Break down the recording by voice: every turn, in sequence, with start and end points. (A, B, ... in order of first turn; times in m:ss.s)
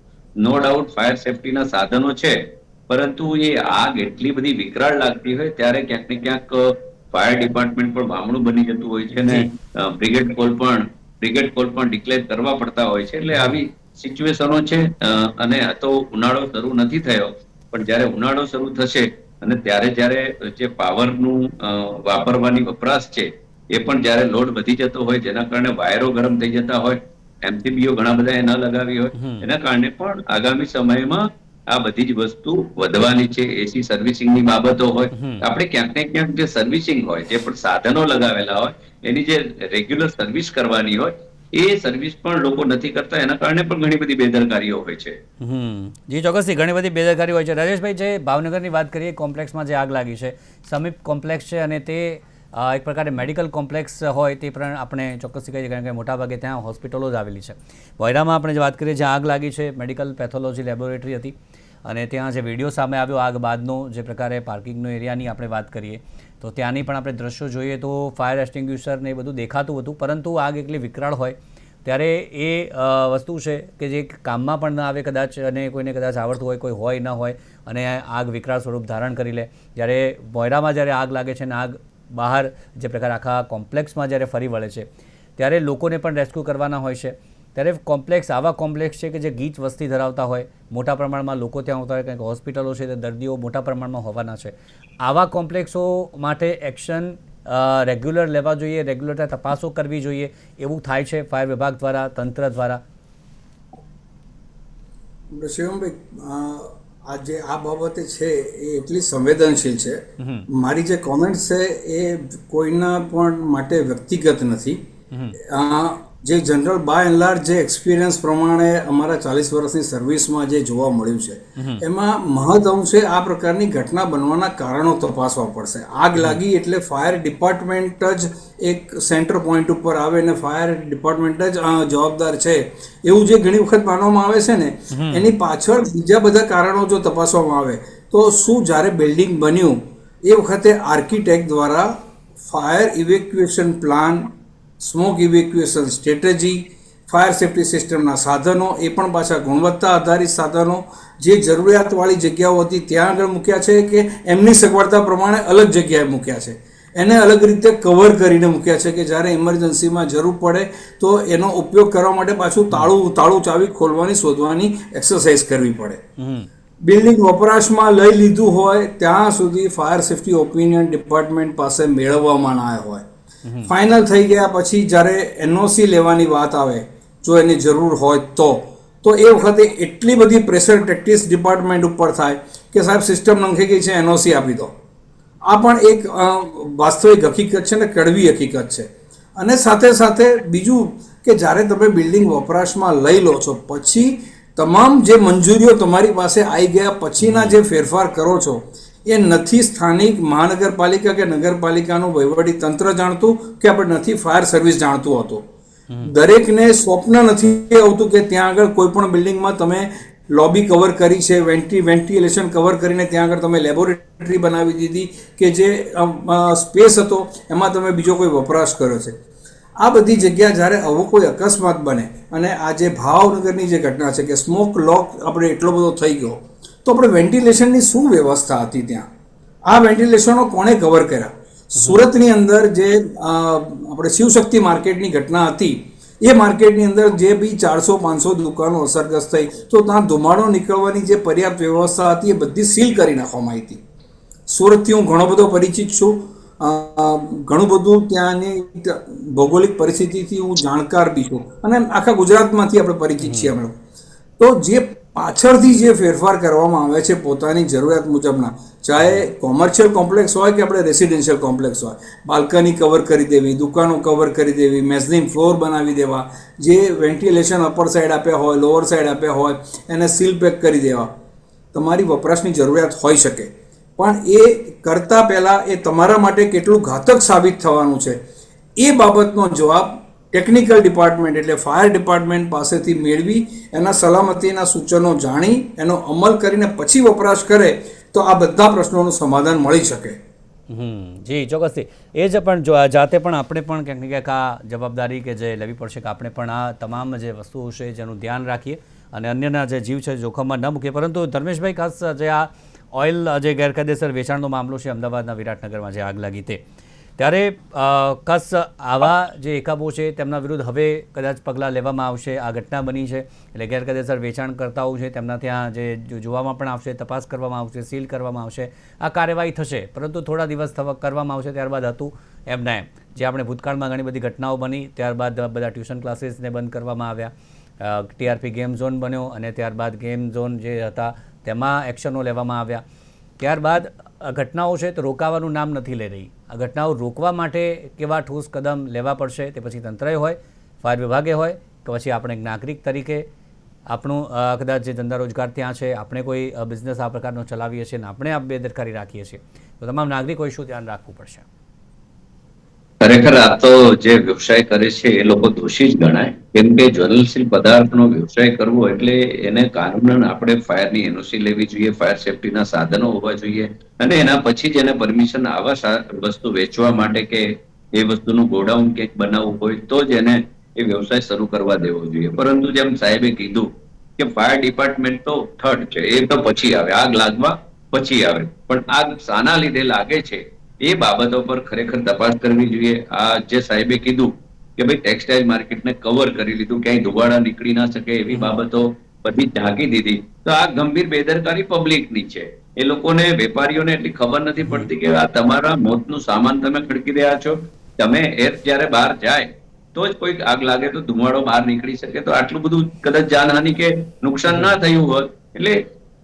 0:00.4-0:45.2 A
0:13.3-0:13.6 B
0:29.2-0:29.5 B
0:35.1-0:35.4 B
0:45.4-1:42.8 B
1:45.3-1:54.8 C
1:50.2-1:50.5 B
1:55.1-1:55.4 B
1:55.4-2:24.3 C
2:01.6-2:01.8 B
2:14.9-2:15.3 B
2:24.8-2:46.0 C
2:46.2-2:46.5 B
2:46.8-2:53.0 C
2:53.4-2:53.7 B
2:53.6-3:04.7 C
3:05.5-3:25.4 C
3:17.2-3:17.6 B
3:26.0-3:39.2 C
3:39.8-3:49.1 C
3:49.7-4:03.8 C
3:51.8-3:52.1 B
4:04.5-4:13.8 C
4:13.2-4:13.5 B
4:14.4-4:31.1 C
4:31.7-4:38.2 C
4:38.8-4:50.2 C
4:50.7-5:06.6 B
5:07.2-5:32.8 B
5:33.4-5:43.2 B
5:43.9-5:51.5 B
5:53.0-6:45.8 A
6:34.6-6:34.9 B
6:44.5-6:44.8 B